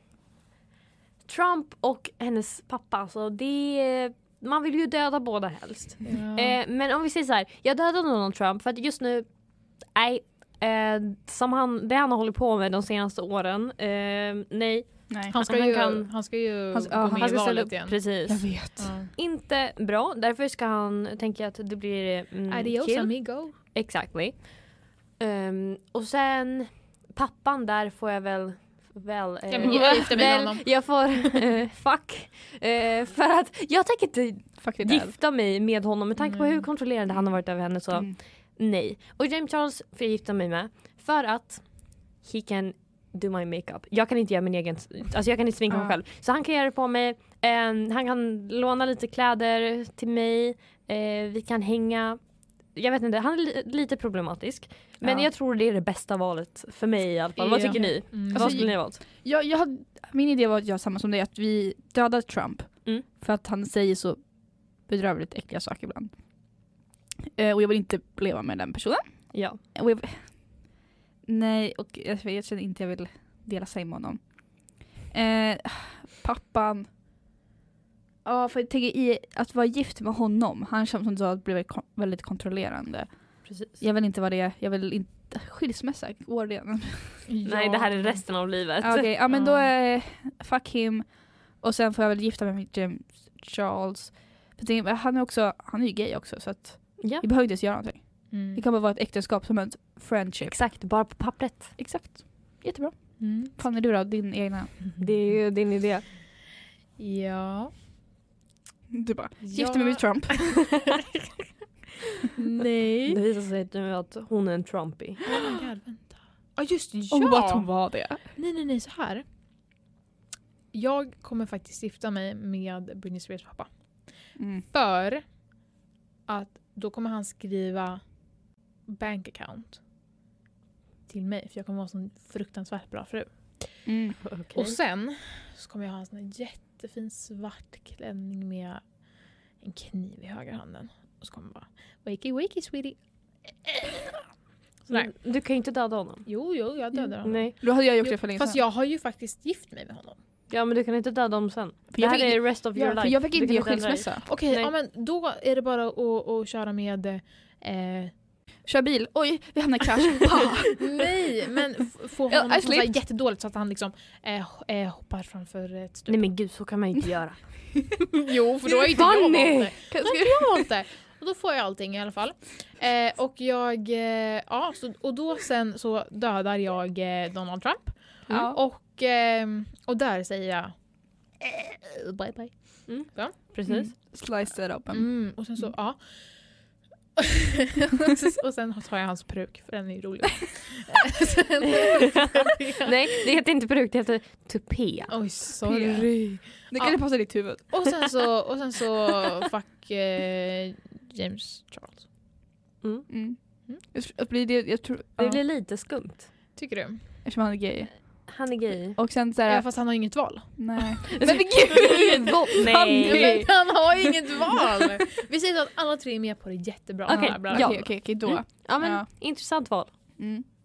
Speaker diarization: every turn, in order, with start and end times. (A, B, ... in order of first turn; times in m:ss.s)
0:01.3-0:16.3 A
0:06.0-0:06.6 B
0:15.1-0:15.4 C
0:15.3-0:18.0 B
0:16.7-0:17.3 C
0:17.1-0:59.0 A
0:18.3-0:18.9 C
0:18.8-0:19.1 B
0:22.5-0:23.6 B
0:29.5-0:30.7 B
0:29.7-0:30.1 C
0:34.6-0:35.1 C
0:36.2-0:36.7 B
0:45.7-0:46.0 B
0:55.0-0:55.3 C
0:57.4-0:58.8 B
0:57.7-1:06.2 C
1:07.4-1:10.5 C
1:09.3-1:09.6 A
1:11.2-1:16.9 C
1:18.2-1:27.3 C
1:23.4-1:23.7 A
1:27.3-1:28.2 B
1:27.4-1:29.1 A
1:28.8-1:40.7 C
1:29.3-1:29.7 B
1:37.0-1:37.2 A
1:38.3-1:38.6 B
1:40.4-1:41.9 A
1:41.8-1:45.0 C
1:43.2-1:43.6 B
1:45.0-1:46.1 A
1:47.0-1:47.7 B
1:48.9-1:50.7 C
1:49.4-1:50.7 B
1:52.3-1:53.2 B
1:53.1-1:55.2 A
1:55.2-1:59.2 B
1:57.1-1:58.2 C
2:00.7-2:03.7 B
2:04.4-2:04.6 C
2:04.6-2:05.3 B
2:06.3-2:08.0 B
2:08.9-2:09.8 B
2:11.1-2:13.9 B
2:13.9-2:14.2 C
2:14.3-2:14.8 A
2:14.5-2:18.8 B
2:19.6-2:24.2 B
2:24.9-2:25.1 B
2:24.9-2:26.3 A
2:26.3-2:30.2 B
2:27.2-2:27.6 A
2:27.6-2:28.6 C
2:30.5-2:34.7 A
2:31.9-2:34.3 C
2:34.3-2:38.1 B
2:38.7-2:41.0 C
2:40.8-2:46.3 B
2:42.3-2:43.0 C
2:46.1-2:48.1 A
2:48.1-3:00.7 B
2:49.0-2:50.0 A
2:49.9-2:50.7 C
2:58.3-2:58.6 C
3:01.4-3:03.4 B
3:02.9-3:03.9 A
3:03.7-3:05.2 C
3:04.9-3:06.0 B
3:07.2-3:13.2 B
3:12.8-3:15.5 A
3:15.1-3:22.1 B
3:15.7-3:17.9 C
3:22.8-3:23.1 A
3:23.1-3:25.4 C
3:25.2-3:26.3 A
3:26.6-3:27.0 B
3:27.2-3:28.3 C
3:28.3-3:29.0 A
3:29.0-3:29.8 C
3:29.5-3:31.2 B
3:30.6-3:33.9 C
3:31.1-3:33.5 A
3:33.0-3:37.9 B
3:37.1-3:39.9 A
3:37.1-3:39.1 C
3:40.2-3:40.4 C